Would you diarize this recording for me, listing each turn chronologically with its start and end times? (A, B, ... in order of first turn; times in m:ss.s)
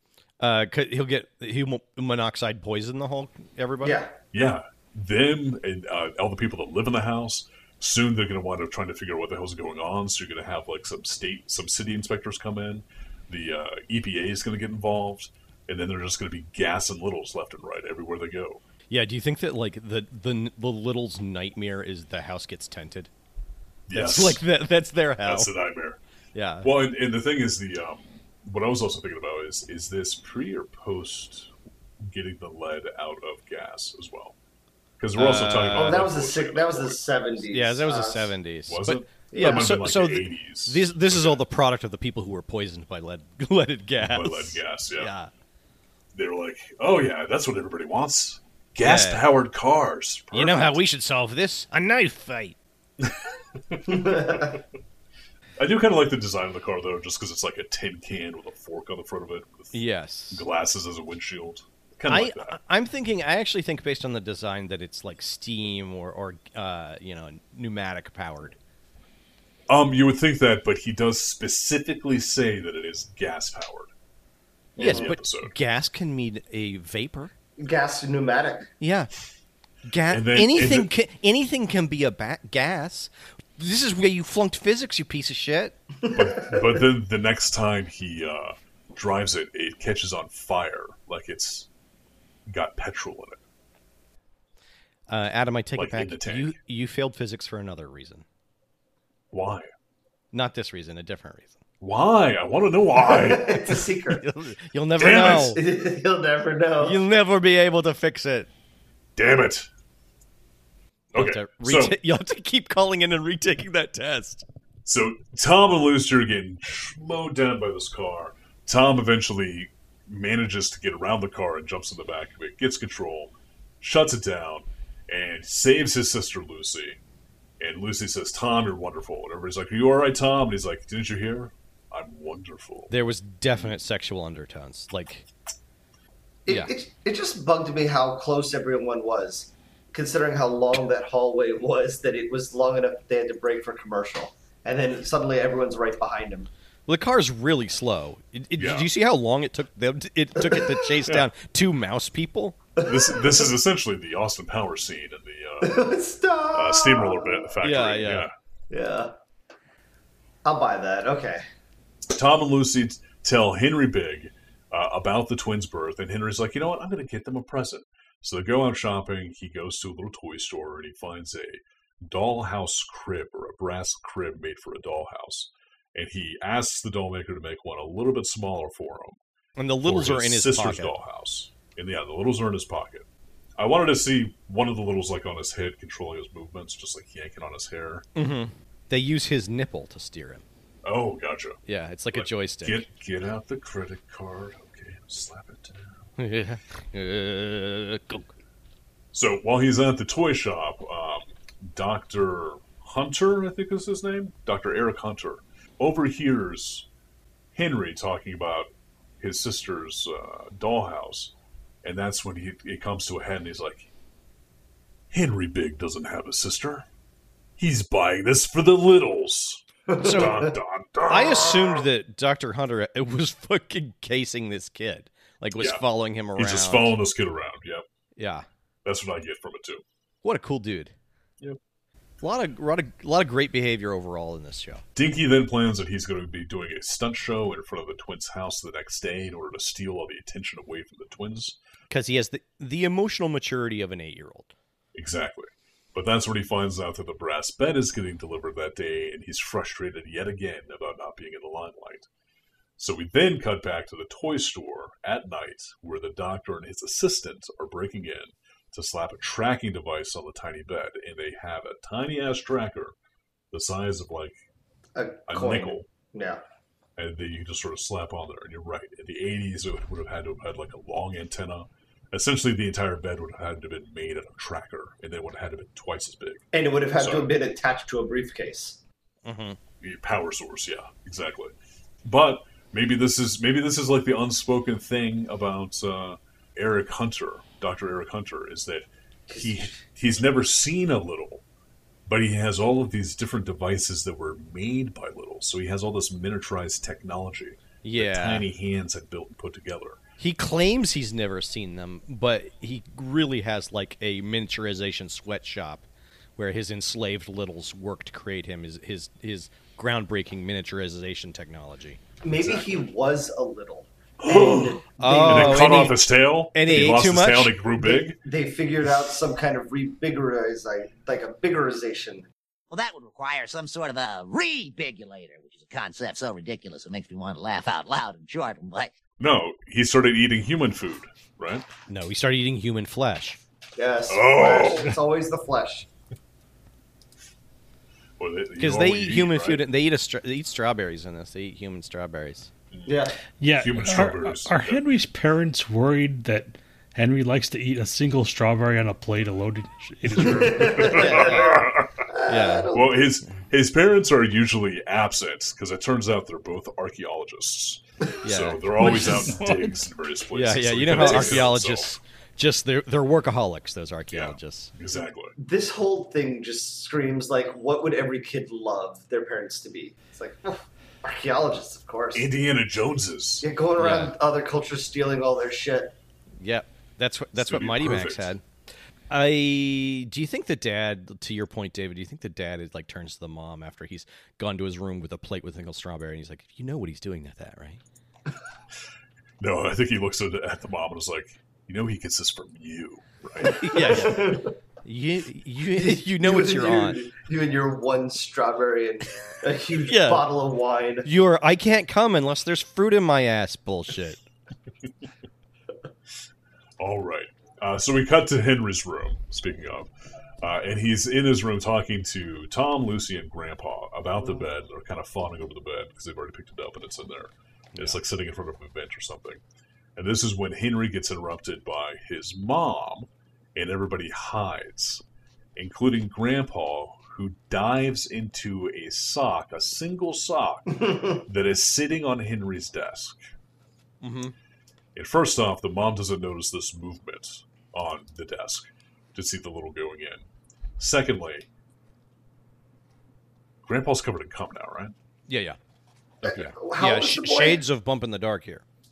0:00.4-0:04.0 A
0:03.8-0:04.1 B
0:04.3-0:18.6 C
0:18.9-0:23.1 A
0:23.9-0:24.4 C
0:23.9-0:25.5 A
0:25.2-0:26.0 C
0:26.3-0:26.7 A
0:26.6-0:31.5 C
0:32.0-0:34.4 C
0:35.0-0:37.0 C
0:35.1-0:36.1 A
0:35.7-0:38.3 B
0:37.5-0:45.3 A
0:38.7-0:41.4 C
0:39.3-0:39.8 B
0:44.0-0:45.1 C
0:46.1-0:50.8 C
0:48.8-0:49.2 A
0:50.3-0:52.6 A
0:53.7-0:54.6 C
0:53.9-0:54.5 B
0:55.6-1:02.6 C
0:59.7-1:00.4 A
1:02.1-1:08.6 A
1:09.7-1:13.9 C
1:14.8-1:15.2 B
1:14.8-1:15.5 C
1:14.8-1:17.3 A
1:17.6-1:18.7 B
1:18.8-1:19.1 A
1:19.8-1:25.8 A
1:20.1-1:20.9 C
1:26.0-1:26.8 B
1:26.1-1:31.7 C
1:32.5-1:33.4 C
1:35.1-1:38.2 A
1:35.8-1:36.6 C
1:39.3-1:39.7 C
1:40.3-1:41.6 A
1:41.8-1:43.7 C
1:43.0-1:44.2 B
1:44.1-1:45.6 A
1:45.0-1:45.6 C
1:45.1-1:47.0 B
1:46.8-1:48.5 A
1:49.2-1:49.7 C
1:51.1-1:54.4 A
1:51.1-1:52.0 C
1:54.8-2:07.0 C
2:07.6-2:12.9 C
2:12.9-2:15.2 A
2:16.4-2:16.7 A
2:16.4-2:26.5 B
2:26.9-2:32.6 A
2:28.6-2:28.9 C
2:30.4-2:30.7 B
2:32.8-2:33.5 B
2:32.8-2:35.8 C
2:35.6-2:37.5 B
2:36.5-2:38.3 C
2:37.6-2:38.3 A
2:38.7-2:39.1 B
2:40.4-2:41.4 B
2:42.1-2:59.2 C
2:59.6-3:00.9 A
2:59.8-3:03.0 C
3:03.6-3:08.1 C
3:08.2-3:10.4 A
3:10.8-3:11.6 C
3:11.6-3:12.8 A
3:12.1-3:16.0 C
3:16.2-3:18.3 A
3:19.1-3:26.9 C
3:27.5-3:33.9 C
3:35.1-3:36.8 C
3:37.6-3:41.8 C
3:39.9-3:40.5 B
3:40.0-3:40.5 A
3:41.0-3:47.0 A
3:45.6-3:47.8 C
3:48.2-3:48.4 A
3:48.8-3:49.8 C
3:50.2-3:50.9 A
3:52.2-3:54.8 A
3:54.9-4:01.6 C
4:01.9-4:04.5 A
4:04.9-4:12.1 C
4:12.8-4:22.9 C
4:23.5-4:24.4 C
4:25.0-4:26.4 B
4:25.3-4:25.9 C
4:27.0-4:37.3 C
4:36.5-4:38.8 B
4:39.2-4:39.6 A
4:39.8-4:41.5 C
4:42.0-4:51.4 C
4:49.3-4:49.8 B
4:52.1-5:00.0 C
4:57.8-4:58.5 A
5:00.2-5:05.8 A
5:06.4-5:12.0 A
5:12.2-5:15.8 B
5:12.3-5:12.7 C
5:14.2-5:18.2 C
5:15.0-5:16.0 A
5:16.5-5:17.6 A
5:17.8-5:22.3 B
5:22.7-5:28.9 D
5:29.2-5:31.6 C
5:31.9-5:33.4 A
5:33.8-5:35.8 B
5:34.1-5:35.0 C
5:38.2-5:39.7 C
5:38.6-5:42.5 A
5:42.7-5:44.8 C
5:42.9-5:43.2 B
5:43.4-5:51.0 E
5:50.2-5:53.0 B
5:50.6-5:52.0 C
5:50.8-5:51.6 A
5:52.3-5:52.7 A
5:52.7-6:01.9 C
5:58.2-5:59.4 A
5:58.8-5:59.7 E
6:00.3-6:04.7 A
6:04.1-6:05.3 C
6:05.4-6:12.3 B
6:12.1-6:13.5 C
6:13.4-6:15.9 B
6:13.8-6:14.1 A
6:16.4-6:18.4 A
6:17.3-6:18.3 C
6:19.1-6:27.8 A
6:29.4-6:33.8 C
6:33.4-6:37.0 A
6:33.4-6:34.5 B
6:35.8-6:41.1 B
6:39.8-6:40.3 A
6:41.0-6:44.2 A
6:46.8-6:49.9 C
6:50.4-6:59.4 C
7:00.0-7:05.0 C
7:05.6-7:13.2 C
7:14.0-7:14.3 A
7:14.9-7:20.2 C
7:20.8-7:21.5 C
7:23.6-7:24.9 C
7:25.3-7:25.6 A
7:26.2-7:27.6 B
7:26.2-7:28.6 A